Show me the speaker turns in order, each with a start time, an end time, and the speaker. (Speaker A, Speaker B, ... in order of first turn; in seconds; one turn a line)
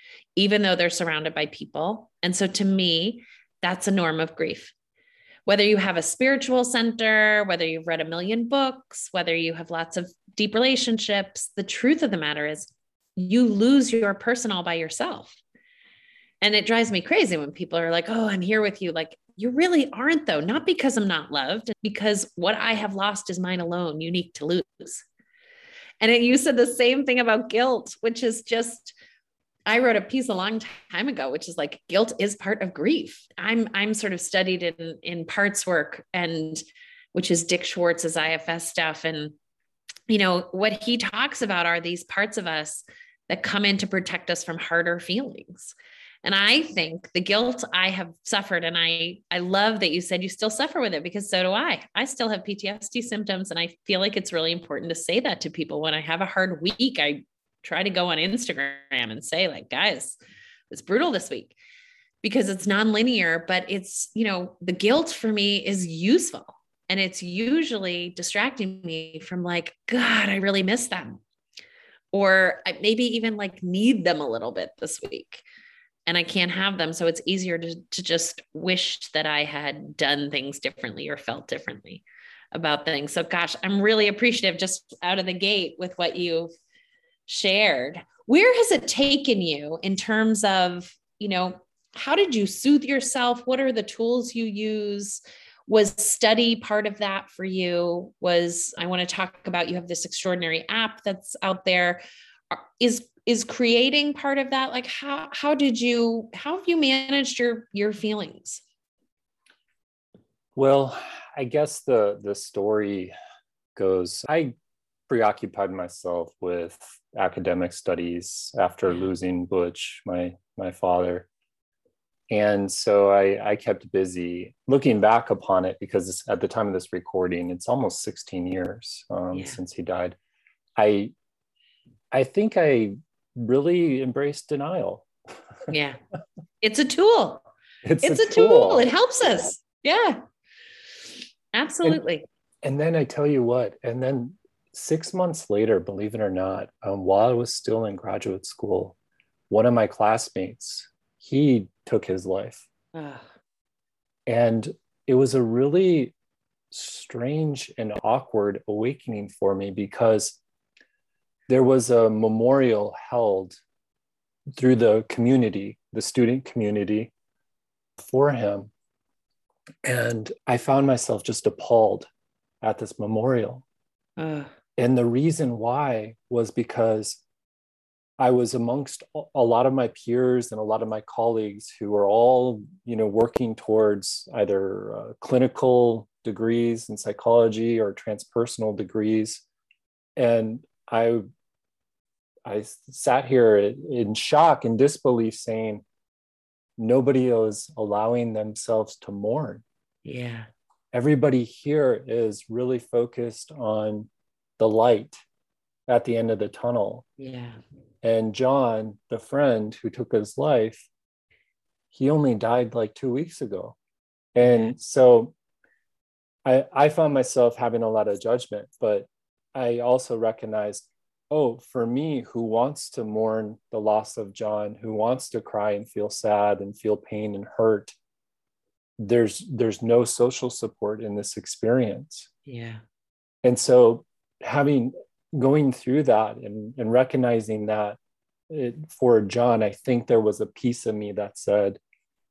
Speaker A: 0.3-4.7
Speaker A: 5.5-15.4
Speaker A: 16.4-25.0
Speaker A: 26.0-28.9
Speaker A: 29.7-36.6
Speaker A: 37.1-39.3
Speaker A: 40.1-60.2
Speaker A: 60.7-61.5
Speaker A: 62.2-71.2
Speaker A: 72.1-75.4
Speaker A: 76.1-82.0
Speaker A: 82.5-86.5
Speaker A: 87.3-108.6
Speaker B: 110.5-113.1
Speaker B: 113.8-114.5
Speaker B: 115.1-121.3
Speaker A: 118.9-119.1
Speaker B: 122.3-130.2
Speaker A: 129.3-129.6
Speaker B: 130.8-131.1
Speaker B: 132.1-135.1
Speaker A: 135.7-136.0
Speaker A: 136.6-137.4
Speaker B: 137.8-138.9
Speaker A: 138.0-140.2
Speaker A: 141.5-142.2
Speaker B: 142.6-148.9
Speaker B: 149.5-152.6
Speaker A: 152.9-153.3
Speaker B: 154.3-156.1
Speaker B: 156.7-160.4
Speaker B: 161.5-163.6
Speaker B: 164.5-167.1
Speaker B: 168.0-168.7
Speaker B: 169.8-172.1
Speaker B: 172.6-173.6
Speaker A: 174.2-174.5
Speaker B: 174.8-177.2
Speaker B: 178.2-189.4
Speaker B: 190.2-191.2
Speaker B: 192.4-195.8
Speaker B: 196.8-199.6
Speaker A: 200.0-200.5
Speaker B: 200.9-205.2
Speaker B: 205.9-207.0
Speaker A: 207.2-207.6
Speaker B: 208.0-210.9
Speaker B: 211.9-213.8
Speaker B: 214.3-215.3
Speaker A: 214.4-214.7
Speaker B: 216.4-227.9
Speaker B: 229.0-232.3
Speaker A: 232.4-232.8
Speaker B: 233.4-238.0
Speaker B: 238.5-241.8